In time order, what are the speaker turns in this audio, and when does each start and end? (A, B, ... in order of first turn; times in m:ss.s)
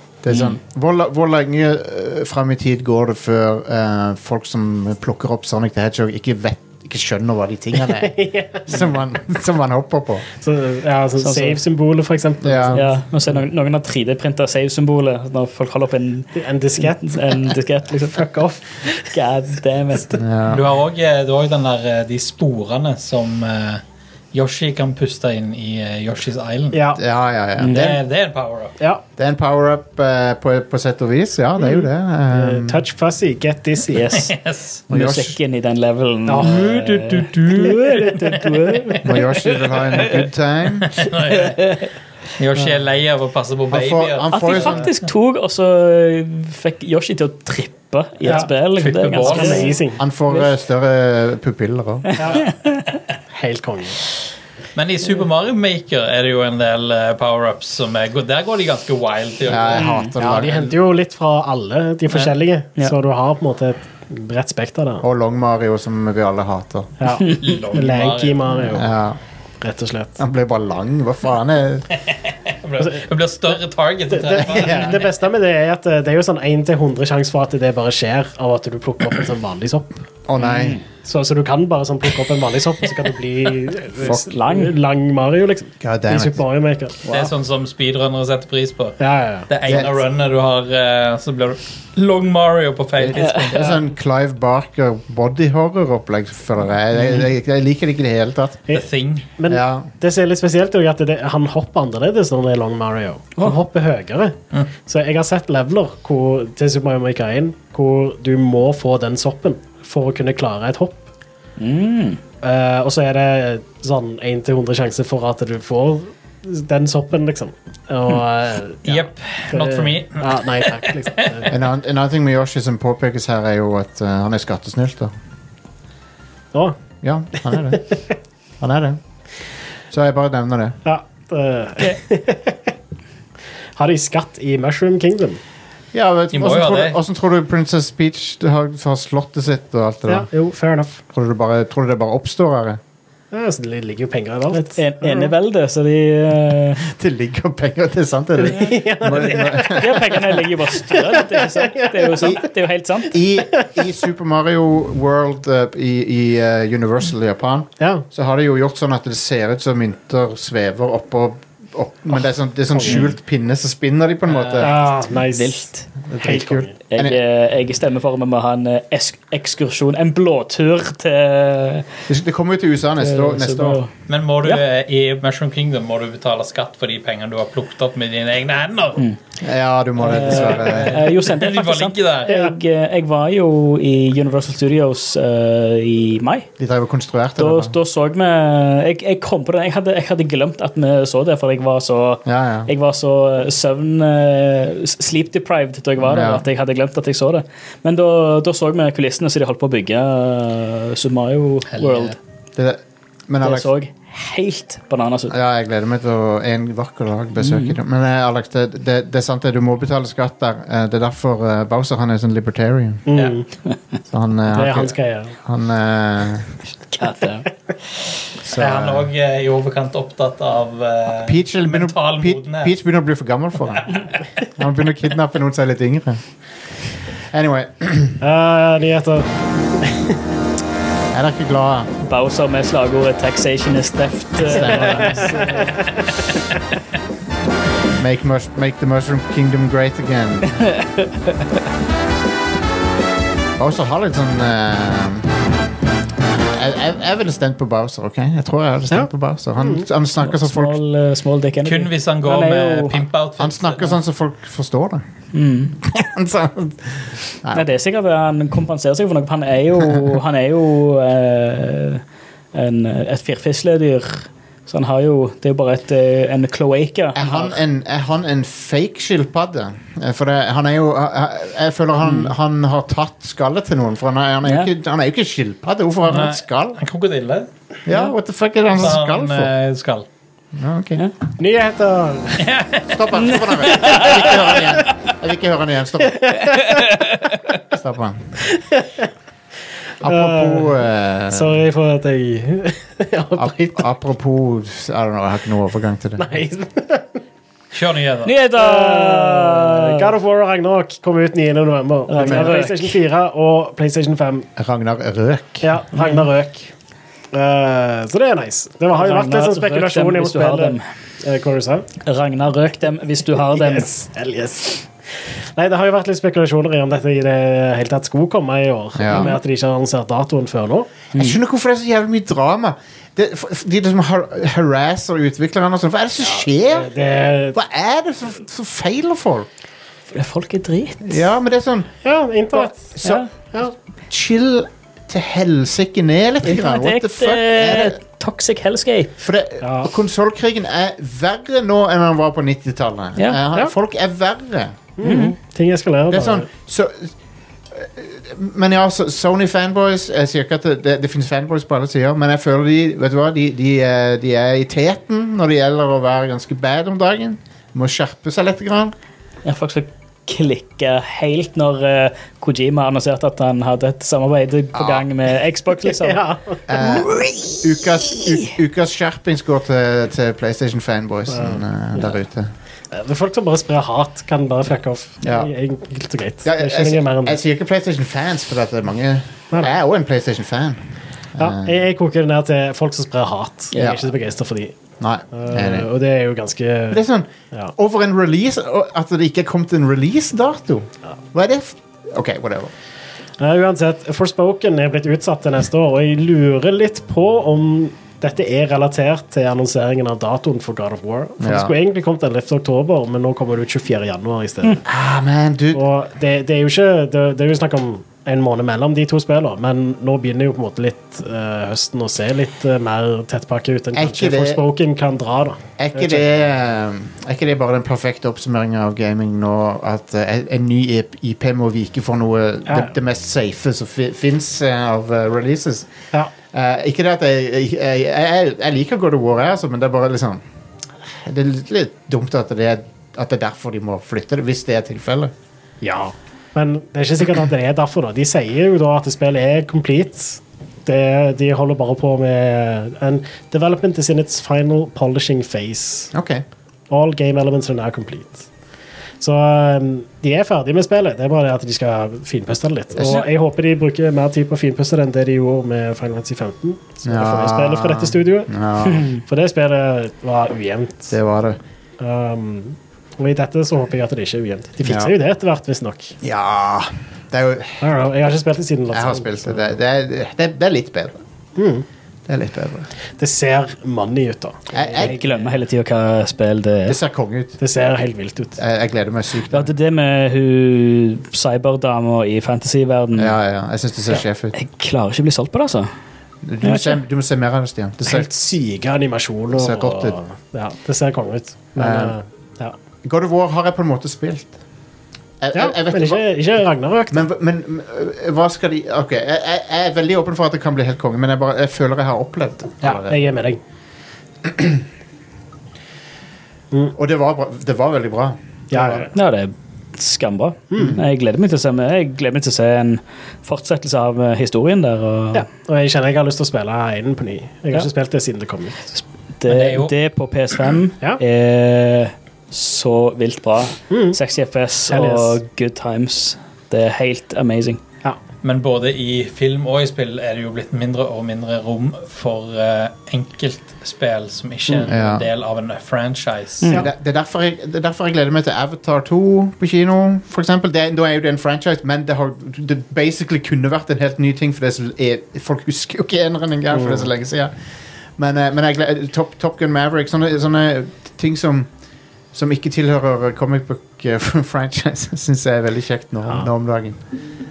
0:00.2-0:10.3 A
0:00.3-0:00.6 B
0:07.9-0:08.9 C
0:10.4-0:13.0 C
0:11.2-0:11.6 B
0:12.4-0:12.9 A
0:12.7-0:18.3 B
0:16.4-0:19.1 C
0:18.8-0:20.2 B
0:20.2-0:20.6 A
0:20.5-0:23.8 D
0:24.3-0:26.9 D
0:26.7-0:27.0 C
0:27.0-0:28.0 A
0:27.6-0:27.9 B
0:27.7-0:28.8 D
0:29.2-0:32.8 A
0:31.7-0:34.2 C
0:33.9-0:34.3 B
0:34.1-0:34.8 D
0:34.9-0:40.2 B
0:34.9-0:35.4 A
0:36.3-0:38.9 C
0:39.0-0:41.0 A
0:40.8-0:41.6 D
0:41.3-0:41.9 B
0:42.4-0:44.8 D
0:43.7-0:44.9 A
0:44.3-0:49.8 B
0:48.2-0:48.5 C
0:48.8-0:49.8 D
0:49.2-0:50.0 C
0:50.0-0:52.1 A
0:52.2-0:52.4 C
0:52.2-0:52.9 B
0:53.3-0:54.0 C
0:54.8-0:59.9 D
0:59.5-1:00.8 A
0:59.8-1:00.1 B
1:00.2-1:05.0 C
1:05.0-1:06.9 A
1:07.0-1:09.0 C
1:07.3-1:08.5 D
1:08.7-1:09.2 A
1:09.6-1:10.2 C
1:10.2-1:11.9 A
1:12.1-1:15.1 D
1:12.8-1:13.0 C
1:14.1-1:20.0 C
1:14.5-1:15.0 A
1:20.3-1:20.8 A
1:20.4-1:20.8 B
1:21.0-1:27.3 C
1:24.0-1:24.8 B
1:25.8-1:26.4 A
1:27.1-1:33.8 D
1:29.0-1:29.9 C
1:33.0-1:38.6 A
1:33.2-1:33.6 B
1:38.7-1:39.3 D
1:39.4-1:51.0 C
1:39.5-1:39.9 A
1:51.6-1:52.2 B
1:52.4-2:01.5 C
1:58.8-2:01.5 D
2:01.5-2:05.1 A
2:07.0-2:07.9 A
2:07.5-2:07.8 C
2:08.6-2:09.0 A
2:09.9-2:10.8 A
2:10.8-2:12.7 C
2:13.8-2:15.4 C
2:15.9-2:20.3 A
2:16.3-2:17.0 D
2:20.1-2:21.0 C
2:21.1-2:22.8 A
2:23.3-2:25.3 C
2:24.5-2:26.8 B
2:26.8-2:30.4 A
2:28.4-2:32.4 C
2:29.3-2:33.2 B
2:33.1-2:44.8 A
2:33.6-2:33.9 C
2:42.7-2:43.1 C
2:44.3-2:44.7 D
2:44.6-2:45.7 C
2:45.3-2:45.9 B
2:46.1-2:47.2 A
2:46.2-2:46.8 C
2:46.9-2:51.9 B
2:52.1-2:53.8 A
2:53.0-2:53.9 B
2:54.1-2:59.0 D
2:59.4-3:01.0 A
3:00.0-3:06.5 B
3:00.1-3:02.4 D
3:02.3-3:02.5 C
3:06.6-3:07.8 A
3:07.4-3:22.2 B
3:12.3-3:12.7 A
3:16.0-3:16.4 A
3:21.7-3:22.2 D
3:22.6-3:23.7 A
3:23.4-3:25.3 B
3:25.3-3:33.1 A
3:27.4-3:27.8 B
3:33.1-3:33.5 C
3:34.1-3:36.5 A
3:34.5-3:35.4 C
3:36.9-3:37.5 B
3:38.4-3:39.1 A
3:38.6-3:42.7 D
3:41.1-3:44.0 A
3:44.6-3:46.2 A
3:47.3-3:48.2 A
3:48.2-3:50.2 C
3:51.1-3:51.9 A
3:52.0-3:55.7 B
3:54.4-3:55.4 A
3:54.5-3:56.0 C
3:58.0-4:00.6 A
4:00.6-4:01.1 B
4:03.6-4:05.4 A
4:06.4-4:10.8 A
4:08.9-4:09.9 C
4:10.2-4:13.0 B
4:11.6-4:14.0 D
4:13.4-4:15.0 A
4:15.3-4:15.8 B
4:15.8-4:17.7 A
4:17.5-4:22.0 B
4:22.5-4:27.5 B
4:27.2-4:36.8 A
4:32.0-4:32.3 B
4:34.4-4:34.7 B
4:36.1-4:37.5 D
4:37.9-4:39.5 A
4:38.8-4:40.1 D
4:40.5-4:41.0 A
4:41.4-4:42.5 C
4:42.4-4:43.0 D
4:42.9-4:46.4 A
4:43.2-4:44.6 B
4:46.2-4:46.8 C
4:46.5-4:47.4 B
4:47.7-4:48.4 A
4:48.6-4:49.1 C
4:50.0-4:51.6 A
4:50.0-4:50.7 C
4:51.3-4:53.8 C
4:53.4-4:56.3 A
4:56.2-4:57.2 C
4:57.7-4:58.3 D
4:58.2-5:00.1 B
4:58.5-5:04.5 C
5:02.1-5:03.0 B
5:04.6-5:05.7 A
5:05.6-5:06.7 C
5:05.9-5:06.3 B
5:07.3-5:11.9 C
5:08.9-5:10.8 B
5:12.0-5:13.9 B
5:13.5-5:14.9 C
5:15.6-5:20.9 C
5:19.0-5:19.4 A
5:19.1-5:19.4 B
5:21.1-5:26.9 A
5:26.2-5:27.6 C
5:27.5-5:29.5 A
5:30.1-5:31.2 B
5:31.0-5:31.9 A
5:32.0-5:32.9 C
5:32.5-5:38.0 A
5:33.0-5:33.3 B
5:36.4-5:39.1 B
5:39.2-5:44.8 A
5:39.6-5:39.9 C
5:45.0-5:46.5 C
5:45.0-5:45.4 B
5:46.1-5:47.1 A
5:47.7-5:58.9 A
5:59.4-6:06.2 B
6:04.7-6:05.1 A
6:05.9-6:06.6 C
6:06.7-6:12.5 A
6:06.8-6:08.5 B
6:11.3-6:12.0 C
6:12.9-6:17.4 C
6:15.2-6:15.5 A
6:16.4-6:20.8 A
6:21.4-6:21.8 A
6:21.4-6:24.8 C
6:23.8-6:24.1 A
6:25.0-6:25.9 A
6:25.3-6:27.0 C
6:26.9-6:32.7 A
6:33.4-6:44.8 C
6:41.4-6:41.7 A
6:44.8-6:45.8 A
6:45.7-6:56.2 C
6:53.9-6:54.6 A
6:55.8-7:05.9 A
7:06.5-7:10.4 A
7:11.1-7:15.3 A
7:15.8-7:26.1 C
7:26.1-7:26.4 A
7:26.9-7:28.5 C
7:29.2-7:38.5 C
7:37.0-7:39.1 A
7:38.9-7:39.2 B
7:39.2-7:41.1 C
7:41.1-7:41.6 A
7:42.0-7:46.2 C
7:44.8-7:45.1 A
7:46.2-7:47.8 A
7:47.8-7:49.7 C
7:48.9-7:51.2 A
7:51.6-7:51.9 C
7:52.3-7:52.9 A
7:53.2-7:55.4 C
7:54.7-7:55.2 A
7:55.0-7:57.0 B
7:56.9-7:57.6 A
7:57.6-7:58.6 C
7:58.6-7:59.7 A
7:59.5-8:03.4 B
8:03.2-8:04.6 A
8:04.5-8:05.9 B
8:06.4-8:08.3 A
8:06.6-8:07.0 B
8:08.0-8:12.8 C
8:09.5-8:10.2 A
8:11.8-8:12.2 A
8:13.0-8:14.6 A
8:15.4-8:16.2 A
8:15.5-8:17.2 C
8:17.1-8:23.2 A
8:22.8-8:23.6 C
8:24.4-8:24.8 A
8:26.9-8:29.1 A
8:28.7-8:29.1 C
8:29.1-8:35.5 B
8:30.7-8:31.0 C
8:35.3-8:38.9 C
8:39.0-8:47.8 B
8:39.5-8:39.9 D
8:43.9-8:44.2 C
8:44.9-8:45.4 C
8:48.4-8:56.7 D
8:54.9-8:55.3 A
8:56.6-8:56.9 B
8:56.7-9:07.5 A
9:06.7-9:07.1 C
9:08.2-9:11.7 A
9:12.3-9:17.0 A